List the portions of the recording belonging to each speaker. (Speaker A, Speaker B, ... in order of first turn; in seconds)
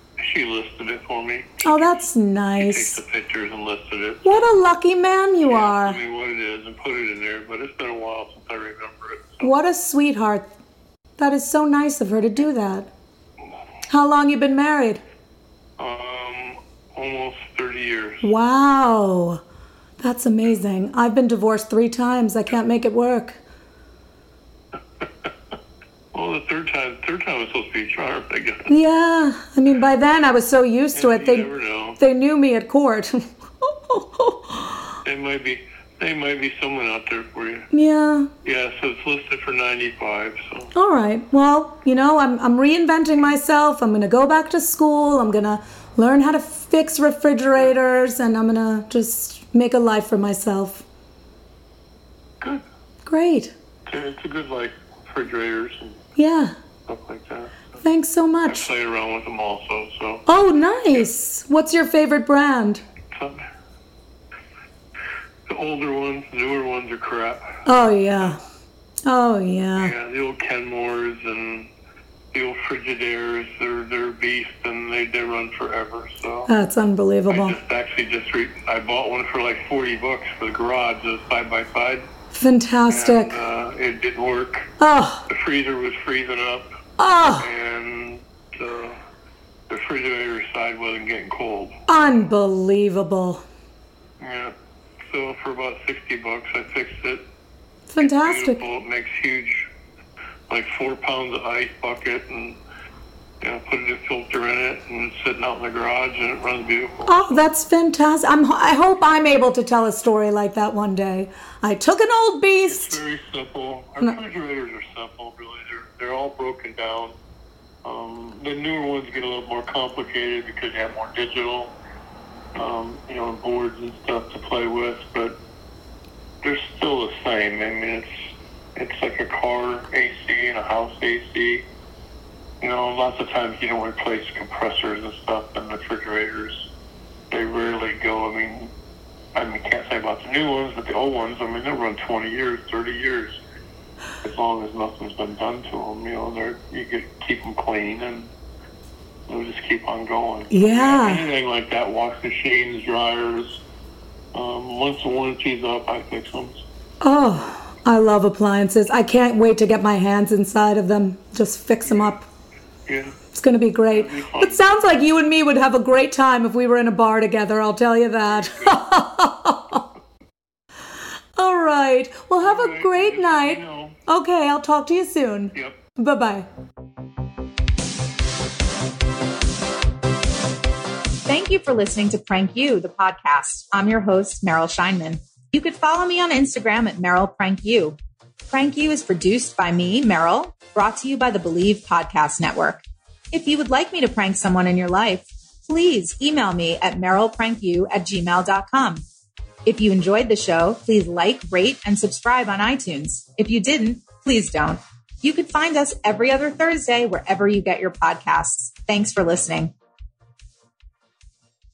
Speaker A: 0.2-1.9, 2.5-4.5, 5.4-9.5, 15.8-18.3, 25.0-25.3, 26.1-28.7, 30.9-32.0, 35.0-37.7, 38.4-40.7, 53.9-56.0, 56.9-57.7, 58.5-60.2, 63.1-63.4, 65.5-67.6, 69.7-71.7, 72.3-76.5, 77.3-82.1, 82.9-84.7, 85.3-86.7, 87.2-89.0, 89.7-91.8, 94.2-97.2, 98.0-99.7, 100.5-102.6, 103.4-107.4, 112.7-117.1, 117.8-121.7, 122.5-125.4, 126.4-131.7, 132.6-136.7, 137.3-138.7, 139.3-143.4, 144.2-148.3, 149.3-153.6, 154.3-156.6, 161.8-162.2, 162.9-163.1, 163.9-164.6, 172.4-174.0, 175.5-175.8
Speaker B: 1.6-3.0, 4.2-6.0, 9.4-10.5, 11.2-12.9, 13.9-15.0, 18.2-19.4, 20.0-23.4, 28.7-34.8, 37.7-38.3, 40.7-50.8, 53.0-53.5, 56.1-56.5, 57.8-58.7, 60.2-62.8, 67.6-68.4, 69.0-69.9, 76.5-77.6, 82.3-83.4, 84.8-85.2, 87.0-87.5, 91.9-93.4, 97.9-98.6, 107.0-113.0, 150.5-151.3, 157.0-162.2, 163.3-169.8, 171.4-176.5
Speaker C: 181.2-188.0, 188.5-199.1, 199.7-209.7